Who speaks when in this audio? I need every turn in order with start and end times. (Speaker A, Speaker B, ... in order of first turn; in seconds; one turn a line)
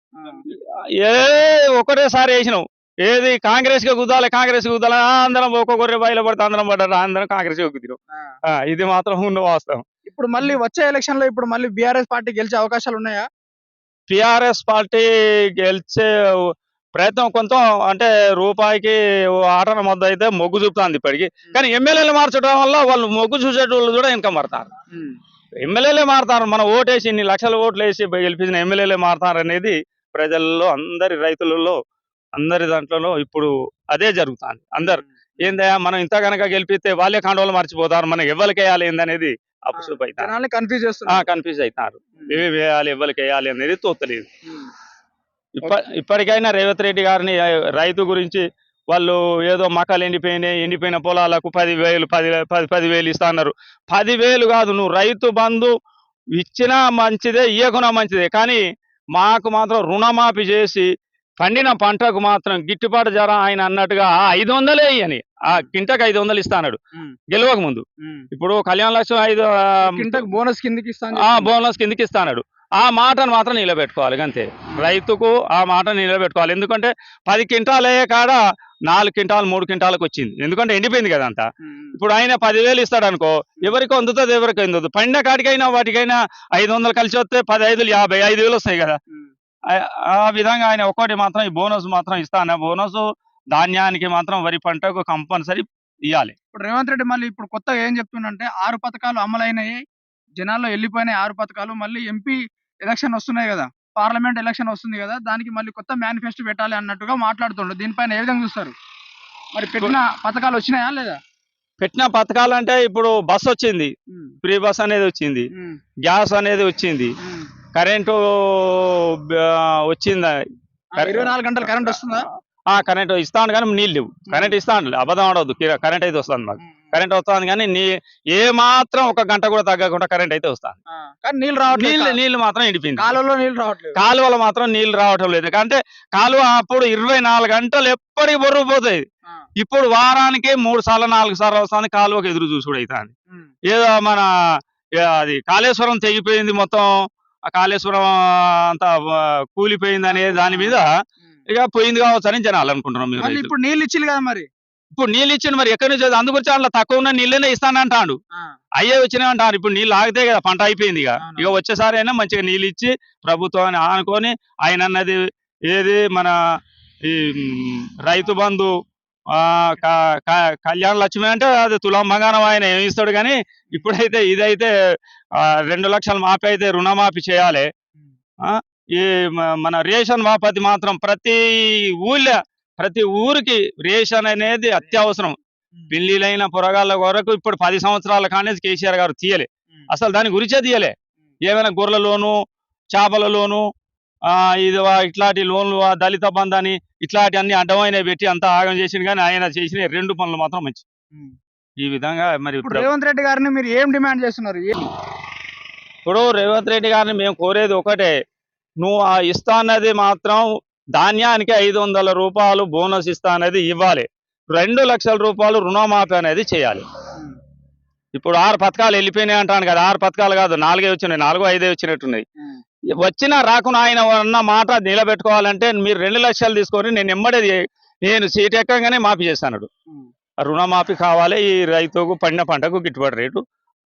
Speaker A: 0.1-0.4
Speaker B: 0.5-8.0
Speaker B: 8.5-9.8
Speaker A: 10.1-13.2
Speaker B: 14.1-15.1
Speaker B: 15.6-16.1
Speaker B: 16.9-24.7
Speaker B: 25.6-31.8
Speaker B: 32.4-40.3
Speaker A: 34.8-35.5
Speaker A: 39.8-41.2
Speaker B: 41.1-44.3
Speaker A: 42.2-42.4
Speaker B: 45.6-55.7
Speaker B: 56.4-58.6
Speaker B: 59.1-60.9
Speaker B: 61.4-66.8
Speaker B: 67.3-70.2
Speaker A: 69.8-71.5
Speaker B: 71.2-89.0
Speaker A: 81.6-82.0
Speaker B: 89.7-96.3
Speaker A: 96.5-99.8
Speaker A: 100.4-108.7
Speaker A: 109.5-111.2
Speaker B: 111.8-113.9
Speaker B: 114.4-115.5
Speaker A: 115.5-115.8
Speaker B: 116.0-117.1
Speaker A: 117.2-117.5
Speaker B: 117.7-120.3
Speaker A: 121.0-122.3
Speaker B: 121.0-122.0
Speaker B: 122.7-130.8
Speaker A: 124.3-124.5
Speaker A: 131.1-132.2
Speaker B: 131.7-133.1
Speaker A: 133.0-134.0
Speaker B: 133.9-139.0
Speaker B: 139.6-143.1
Speaker B: 143.7-144.3
Speaker B: 145.0-146.9
Speaker B: 147.5-150.9
Speaker A: 150.1-150.8
Speaker B: 151.5-153.5
Speaker A: 153.2-154.5
Speaker B: 154.9-158.2
Speaker B: 158.8-166.4
Speaker A: 161.2-161.5
Speaker B: 167.0-168.7
Speaker B: 169.3-174.7
Speaker B: 175.4-177.7
Speaker B: 178.4-185.4
Speaker B: 185.9-190.9
Speaker B: 191.5-192.3
Speaker B: 192.9-193.6
Speaker B: 194.3-200.8
Speaker B: 201.8-202.9
Speaker A: 202.6-204.9
Speaker B: 206.0-208.1
Speaker B: 208.8-210.4
Speaker B: 211.0-216.8
Speaker B: 218.2-222.2
Speaker B: 223.0-229.7
Speaker B: 230.4-233.4